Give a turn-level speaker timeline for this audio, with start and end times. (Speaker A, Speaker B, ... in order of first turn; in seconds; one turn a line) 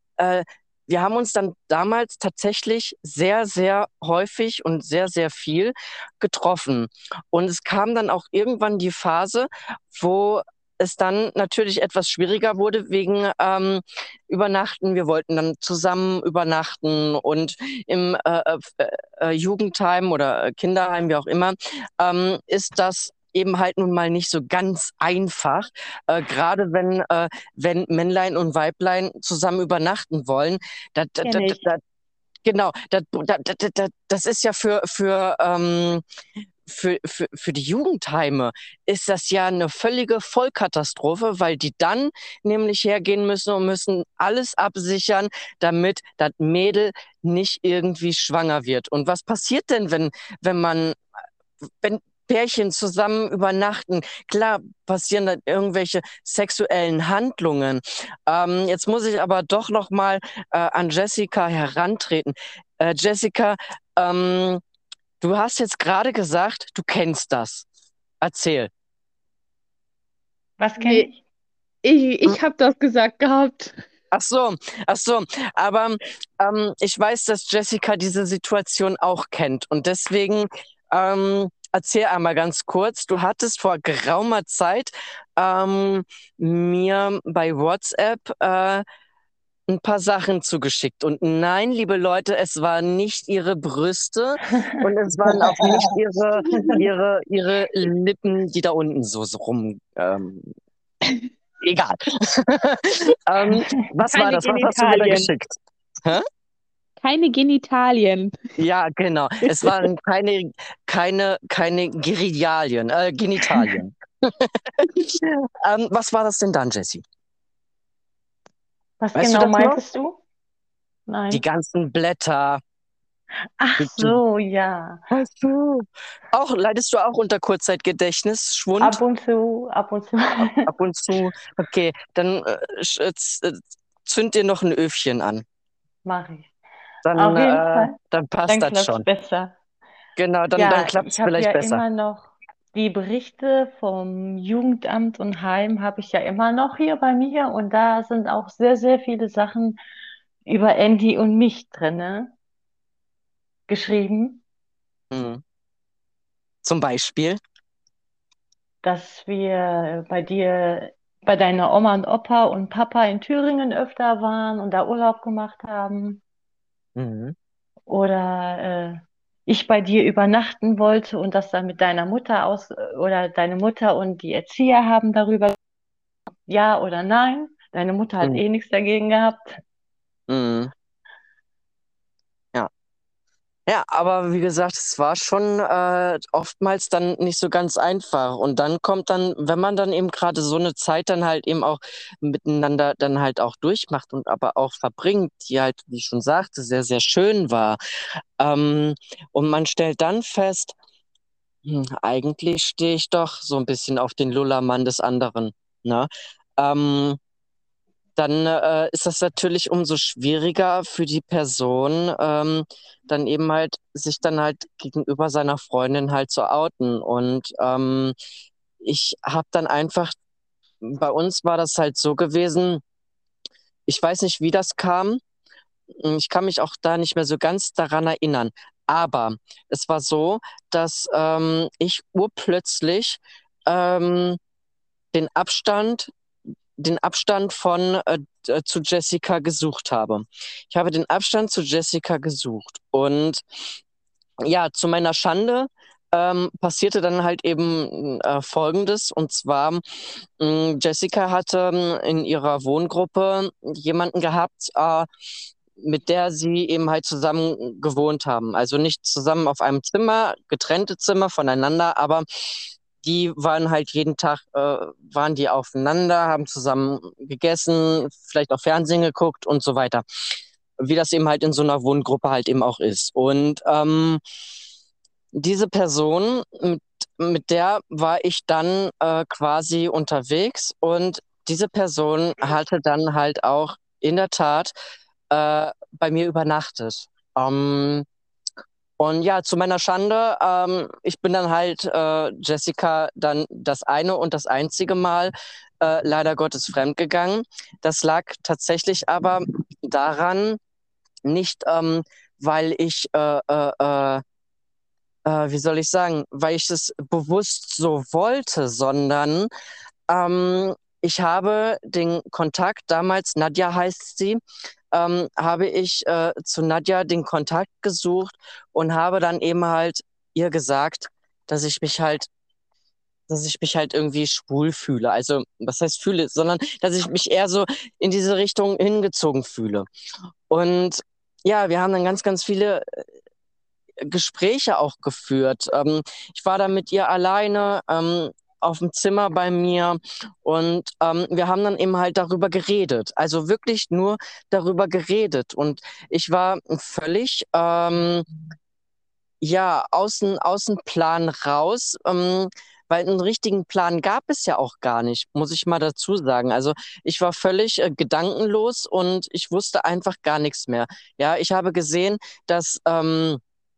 Speaker A: 0.2-31.8
Speaker B: 31.2-31.6
Speaker A: 32.4-36.0
Speaker A: 36.6-51.0
Speaker A: 51.8-64.6
Speaker A: 65.2-67.7
Speaker A: 68.2-68.7
Speaker B: 70.6-71.2
Speaker C: 70.8-71.1
Speaker C: 71.8-73.8
Speaker A: 74.1-88.8
Speaker A: 89.7-100.5
Speaker A: 101.6-106.2
Speaker C: 104.1-105.3
Speaker C: 107.0-108.4
Speaker A: 108.6-117.0
Speaker C: 109.5-109.7
Speaker B: 119.0-120.2
Speaker A: 119.2-119.8
Speaker B: 121.1-121.4
Speaker A: 121.3-122.6
Speaker B: 123.6-125.0
Speaker A: 123.8-124.2
Speaker A: 125.1-129.0
Speaker B: 128.8-130.7
Speaker A: 130.4-135.4
Speaker B: 136.0-136.5
Speaker A: 137.0-139.0
Speaker B: 137.2-137.9
Speaker B: 138.5-139.5
Speaker A: 140.2-141.8
Speaker B: 140.6-149.8
Speaker B: 150.4-152.3
Speaker B: 153.7-154.4
Speaker A: 155.1-155.4
Speaker A: 156.6-157.4
Speaker B: 158.8-166.2
Speaker A: 166.9-167.3
Speaker B: 167.9-175.6
Speaker B: 176.5-179.6
Speaker A: 180.3-180.7
Speaker A: 183.7-197.8
Speaker A: 198.4-200.7
Speaker A: 201.6-207.2
Speaker A: 208.2-218.1
Speaker A: 218.8-220.1
Speaker A: 220.8-222.8
Speaker A: 223.9-225.2
Speaker A: 226.0-234.4
Speaker A: 235.1-236.1
Speaker A: 236.8-243.4
Speaker A: 244.4-255.1
Speaker A: 255.8-270.0
Speaker A: 270.8-274.2
Speaker A: 275.3-284.7
Speaker A: 285.3-288.1
Speaker A: 289.0-300.6
Speaker A: 301.2-304.2
Speaker A: 305.2-309.5
Speaker A: 310.1-314.4
Speaker A: 314.9-322.3
Speaker A: 323.3-329.9
Speaker A: 330.5-333.0
Speaker A: 334.0-348.3
Speaker A: 349.4-363.4